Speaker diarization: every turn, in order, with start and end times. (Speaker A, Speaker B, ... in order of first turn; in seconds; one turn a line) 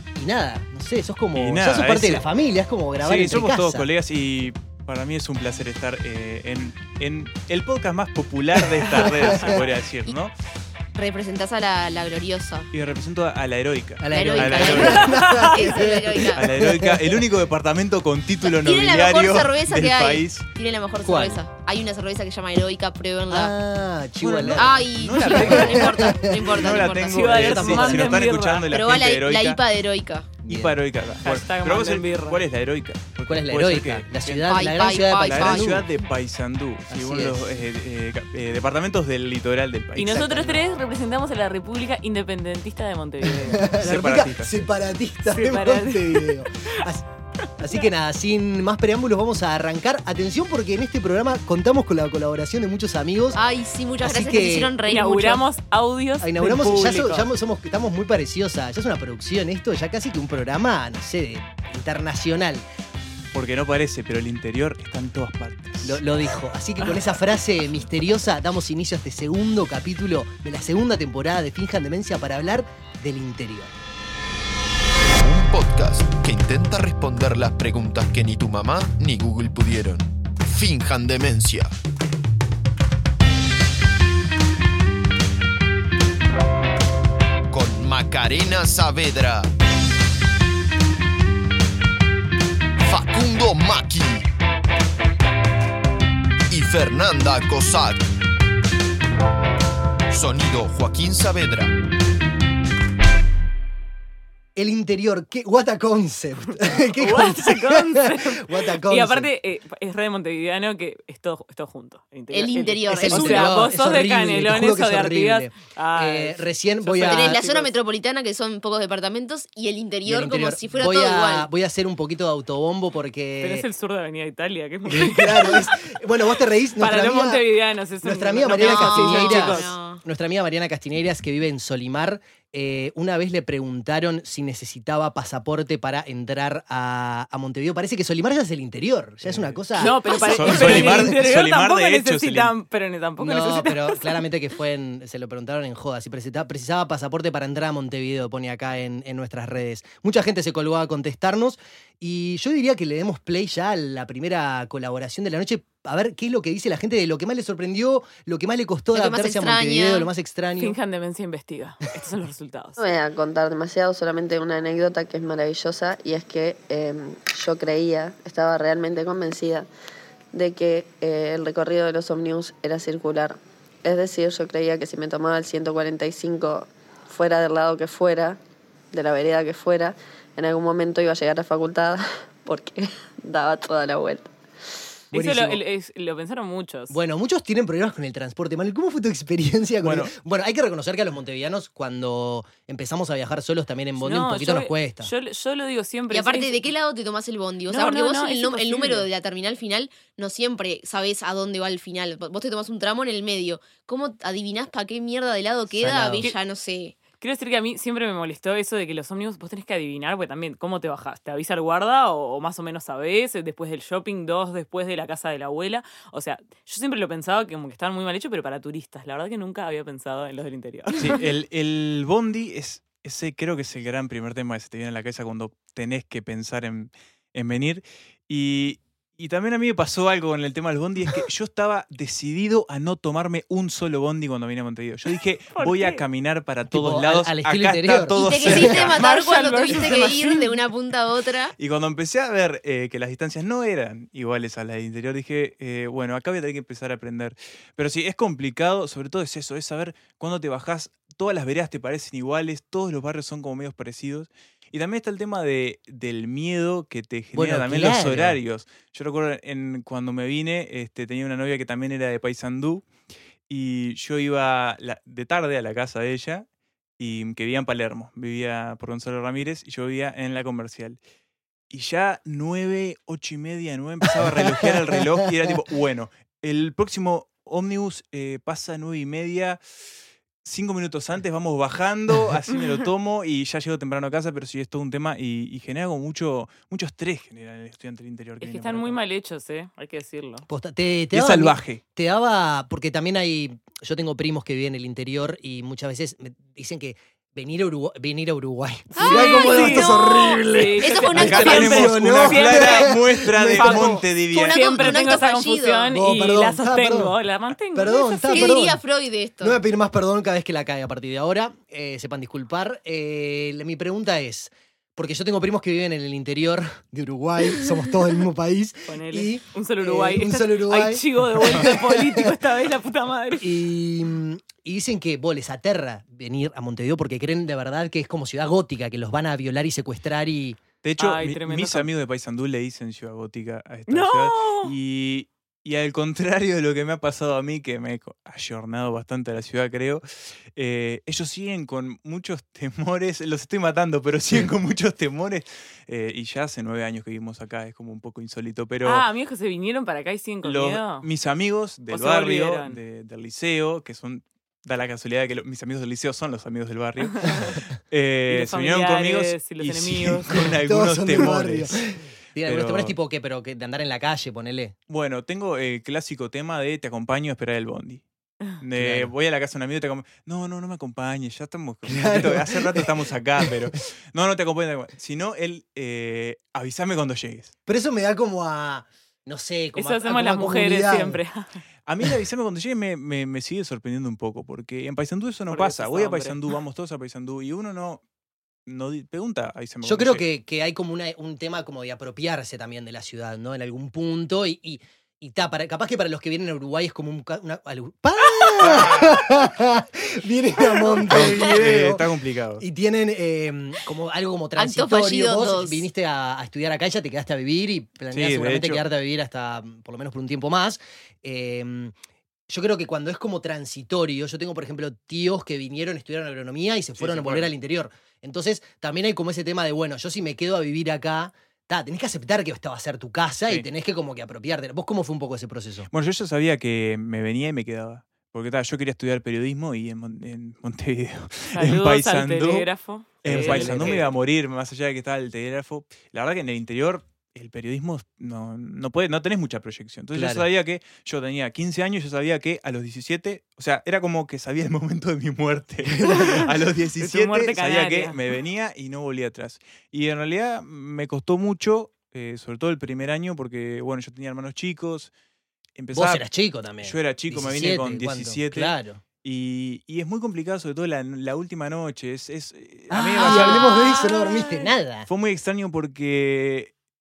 Speaker A: 0.1-3.9
Speaker B: 1.3-2.2
Speaker B: 3.0-10.3
Speaker A: 8.8-9.6
Speaker C: 10.9-12.7
Speaker B: 12.7-15.2
Speaker A: 14.0-17.2
Speaker C: 14.1-16.4
Speaker D: 14.9-15.8
Speaker B: 16.3-20.5
Speaker C: 18.4-23.5
Speaker A: 21.0-21.4
Speaker A: 23.3-26.5
Speaker B: 24.2-29.6
Speaker C: 24.6-27.3
Speaker D: 26.9-28.7
Speaker A: 27.3-28.2
Speaker C: 28.7-30.4
Speaker A: 30.4-30.8
Speaker B: 30.4-40.5
Speaker D: 31.2-32.4
Speaker A: 33.2-35.9
Speaker C: 34.4-35.8
Speaker A: 36.9-37.5
Speaker D: 40.0-43.7
Speaker A: 40.0-40.5
Speaker A: 43.4-47.0
Speaker B: 43.7-44.7
Speaker D: 45.2-46.7
Speaker A: 47.6-53.4
Speaker C: 53.3-55.4
Speaker A: 54.0-54.7
Speaker D: 54.9-57.3
Speaker A: 56.2-62.6
Speaker B: 63.3-66.0
Speaker A: 65.8-73.7
Speaker E: 75.0-81.7
Speaker E: 87.5-89.5
Speaker E: 92.8-94.3
Speaker E: 96.5-98.1
Speaker E: 100.1-101.7
Speaker A: 104.5-109.3
Speaker D: 106.9-117.7
Speaker C: 112.3-113.5
Speaker A: 112.9-117.4
Speaker C: 117.0-121.5
Speaker A: 120.0-123.7
Speaker D: 123.4-125.7
Speaker A: 124.9-127.4
Speaker D: 126.8-129.7
Speaker A: 128.0-141.2
Speaker C: 128.5-130.0
Speaker B: 139.2-139.6
Speaker D: 139.8-144.2
Speaker B: 140.1-142.5
Speaker A: 143.2-160.8
Speaker C: 158.9-160.1
Speaker D: 160.6-162.8
Speaker F: 162.8-169.7
Speaker F: 170.3-178.4
Speaker F: 178.9-184.3
Speaker A: 185.1-185.6
Speaker D: 185.1-187.0
Speaker A: 186.9-195.1
Speaker B: 189.8-190.1
Speaker D: 194.0-196.6
Speaker C: 196.1-207.0
Speaker D: 197.7-199.1
Speaker A: 205.8-206.3
Speaker D: 207.2-221.2
Speaker B: 220.9-238.9
Speaker D: 235.5-236.0
Speaker A: 236.7-238.9
Speaker C: 238.1-241.5
Speaker D: 238.8-240.5
Speaker B: 241.6-262.9
Speaker A: 257.3-258.4
Speaker B: 263.5-266.4
Speaker B: 267.0-271.0
Speaker B: 271.7-279.6
Speaker B: 280.4-289.0
Speaker D: 288.4-290.4
Speaker A: 290.5-304.0
Speaker B: 291.1-291.8
Speaker D: 298.9-303.0
Speaker C: 299.0-301.8
Speaker B: 301.1-304.8
Speaker D: 303.6-303.9
Speaker C: 304.3-305.9
Speaker D: 304.5-308.5
Speaker A: 305.9-307.1
Speaker A: 307.7-308.8
Speaker C: 308.3-309.6
Speaker A: 309.4-322.3
Speaker D: 318.9-323.5
Speaker A: 323.3-330.6
Speaker B: 330.8-349.0
Speaker D: 331.0-331.9
Speaker D: 333.9-334.7
Speaker D: 348.8-351.1
Speaker B: 350.4-361.8
Speaker D: 351.9-352.8
Speaker D: 358.3-360.5
Speaker A: 360.4-364.8
Speaker B: 362.4-362.9
Speaker B: 364.9-368.0
Speaker B: 368.6-377.5
Speaker A: 368.8-369.1
Speaker A: 371.9-373.7
Speaker A: 377.7-381.2
Speaker D: 379.8-381.6
Speaker B: 381.9-388.0
Speaker D: 385.5-386.4
Speaker B: 388.6-390.2
Speaker A: 389.8-402.1
Speaker B: 398.6-399.2
Speaker B: 401.1-402.6
Speaker A: 402.6-411.9
Speaker C: 404.6-405.9
Speaker B: 408.1-408.8
Speaker A: 412.5-425.9
Speaker B: 417.0-417.5
Speaker B: 425.9-432.7
Speaker D: 431.5-434.1
Speaker B: 433.2-455.1
Speaker A: 433.2-434.1
Speaker A: 440.1-440.4
Speaker A: 445.9-446.4
Speaker D: 446.0-446.5
Speaker D: 447.0-448.2
Speaker B: 455.8-456.2
Speaker A: 455.9-459.0
Speaker B: 456.8-463.8
Speaker A: 462.9-465.1
Speaker C: 463.2-464.3
Speaker B: 465.1-466.7